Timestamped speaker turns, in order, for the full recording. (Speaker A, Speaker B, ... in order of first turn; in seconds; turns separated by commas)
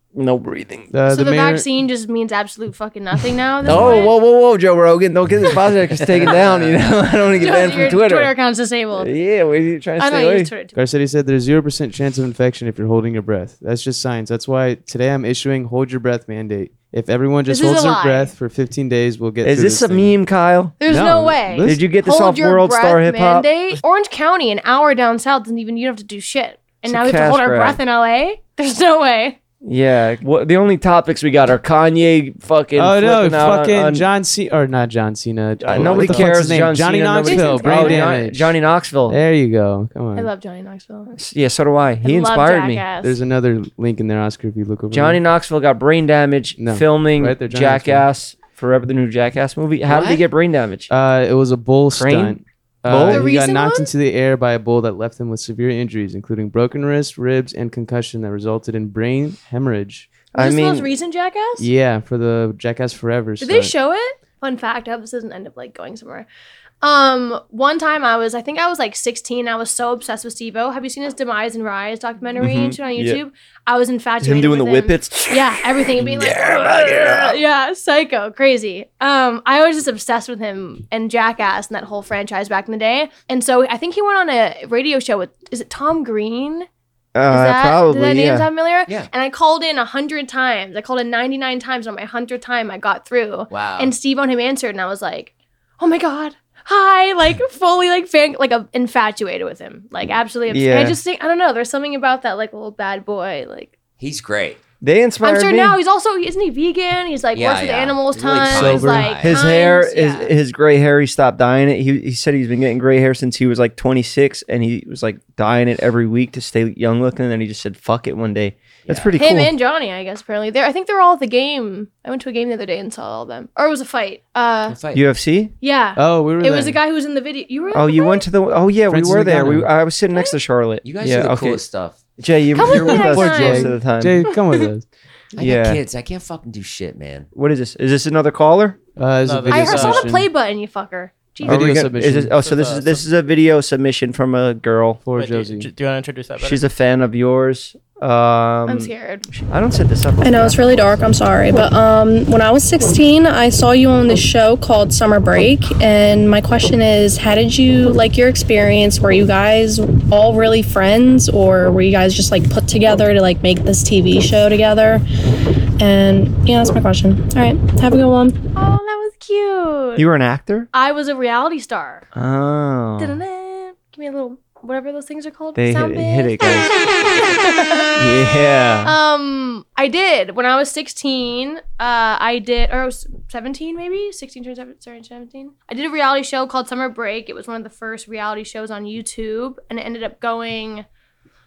Speaker A: 0.1-0.9, Speaker B: 0.9-1.7, Speaker C: 1.1-4.2, Speaker A: 3.7-8.3, Speaker D: 6.0-7.4, Speaker C: 7.4-9.2, Speaker A: 8.9-10.5, Speaker C: 10.0-10.8, Speaker B: 10.7-20.1, Speaker C: 17.5-18.3, Speaker A: 19.4-20.8, Speaker C: 20.8-29.4, Speaker B: 20.9-21.8, Speaker A: 21.6-23.8, Speaker A: 26.9-27.8, Speaker A: 29.6-34.1, Speaker B: 32.8-38.5, Speaker A: 35.6-39.2, Speaker C: 36.0-36.2, Speaker C: 37.2-38.1, Speaker B: 39.1-40.3, Speaker C: 40.1-41.2, Speaker A: 41.2-42.9, Speaker C: 42.0-43.2, Speaker B: 43.0-45.2, Speaker A: 44.9-50.9, Speaker B: 46.6-48.0, Speaker B: 49.9-50.2, Speaker B: 50.9-60.1, Speaker A: 51.9-53.3, Speaker C: 53.0-53.9, Speaker A: 60.3-60.9, Speaker C: 60.4-61.7, Speaker B: 61.6-63.7, Speaker C: 63.4-66.3, Speaker C: 66.8-86.7, Speaker A: 72.4-73.2, Speaker A: 74.2-77.4, Speaker A: 87.2-88.5, Speaker C: 87.3-103.7, Speaker D: 93.5-93.9, Speaker A: 100.5-101.0, Speaker D: 104.0-104.6, Speaker A: 104.8-105.8, Speaker C: 105.2-110.3, Speaker D: 107.3-109.4, Speaker A: 108.5-119.5, Speaker D: 118.9-119.2, Speaker C: 119.2-124.8, Speaker D: 124.7-125.0, Speaker A: 124.9-125.5, Speaker C: 125.6-128.2, Speaker B: 126.0-126.8, Speaker A: 127.7-131.6, Speaker B: 128.9-129.7, Speaker D: 130.8-132.0, Speaker A: 132.2-134.2, Speaker C: 132.5-133.7, Speaker B: 132.7-134.8, Speaker D: 135.3-137.3, Speaker A: 135.4-135.8, Speaker A: 137.3-138.8, Speaker B: 139.0-140.3, Speaker E: 139.2-140.1, Speaker C: 139.5-141.6, Speaker B: 141.4-142.8, Speaker A: 141.4-145.0, Speaker E: 142.4-142.9, Speaker B: 145.1-145.7, Speaker E: 145.2-146.6, Speaker A: 146.4-151.2, Speaker C: 148.7-149.3, Speaker F: 150.2-165.0, Speaker F: 165.8-168.4, Speaker C: 168.6-170.1, Speaker A: 170.0-170.7, Speaker C: 170.7-172.1, Speaker A: 172.2-173.2, Speaker C: 173.0-178.0, Speaker A: 175.6-176.7, Speaker A: 178.0-178.9, Speaker C: 178.8-190.8